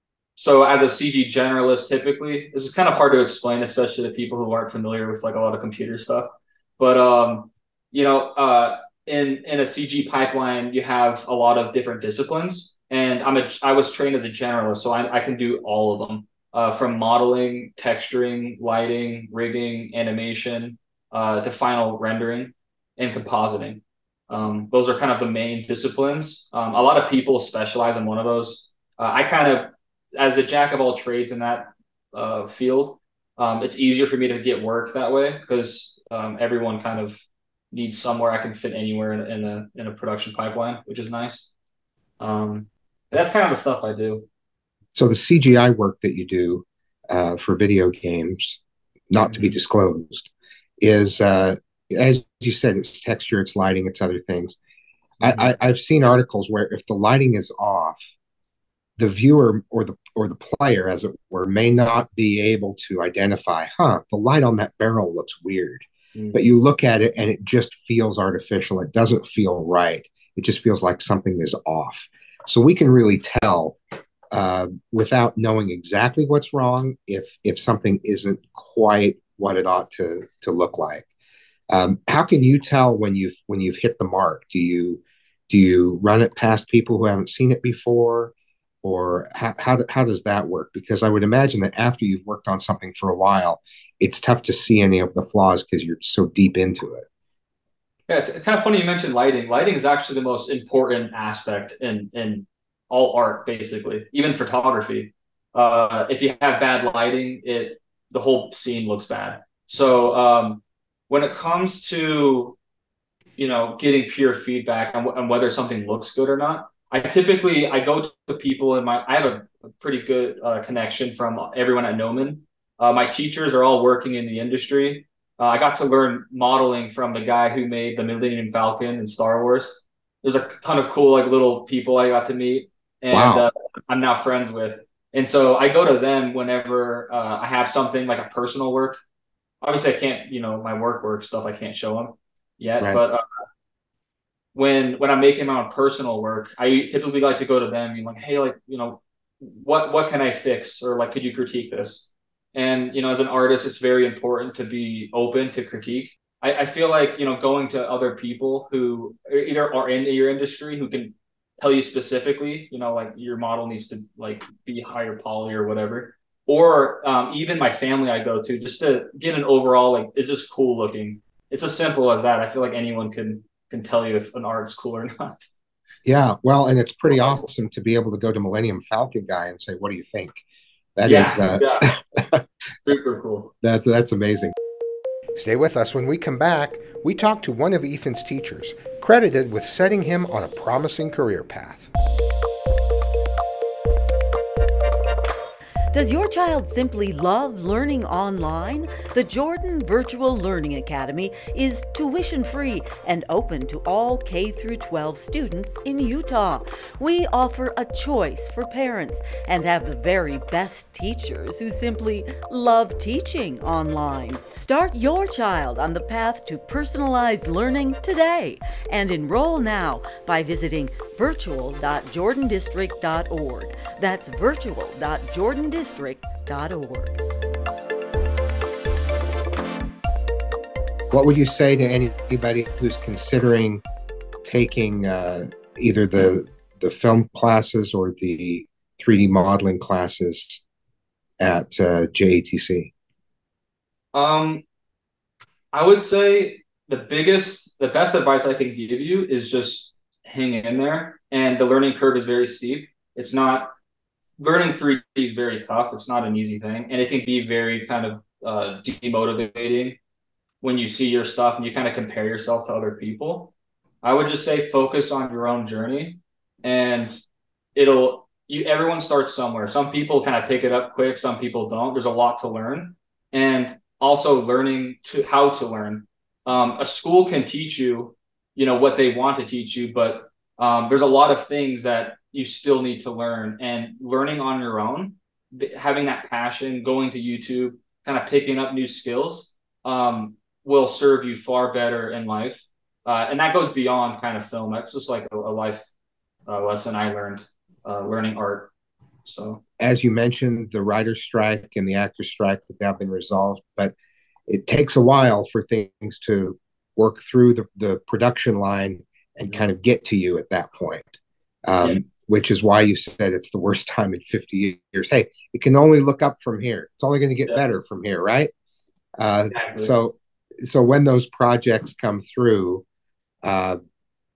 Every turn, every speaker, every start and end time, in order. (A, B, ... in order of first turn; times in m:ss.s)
0:00.4-0:41.5 A
0:42.2-0:44.3 A
0:45.0-0:50.3 B
0:49.2-0:49.6 A
0:50.8-0:54.6 B
0:55.2-0:55.5 A
0:55.2-0:58.0 B
0:59.0-1:13.8 B
1:06.1-1:06.4 A
1:14.3-1:21.1 B
1:21.7-1:37.0 B
1:38.1-1:52.6 A
1:53.4-2:19.0 A
2:13.1-2:13.5 B
2:19.6-2:23.2 A
2:24.5-2:55.5 A
2:56.0-3:00.4 B
2:57.1-2:57.4 A
3:01.0-3:02.4 B
3:01.0-3:01.9 A
3:02.7-3:03.5 A
3:03.6-3:04.5 B
3:05.4-3:11.9 B
3:15.9-3:47.2 C
3:51.1-3:53.8 B
3:54.4-4:00.6 B
4:01.4-4:02.9 B
4:04.1-4:04.6 A
4:05.7-4:13.7 A
4:14.4-4:20.0 A
4:20.6-4:27.2 A
4:27.8-4:55.9 A
4:56.5-4:58.7 A
4:59.2-4:59.6 A
4:59.8-5:03.9 B
5:04.5-5:18.5 B
5:19.2-5:22.8 B
5:19.5-5:19.9 A
5:23.4-5:23.8 B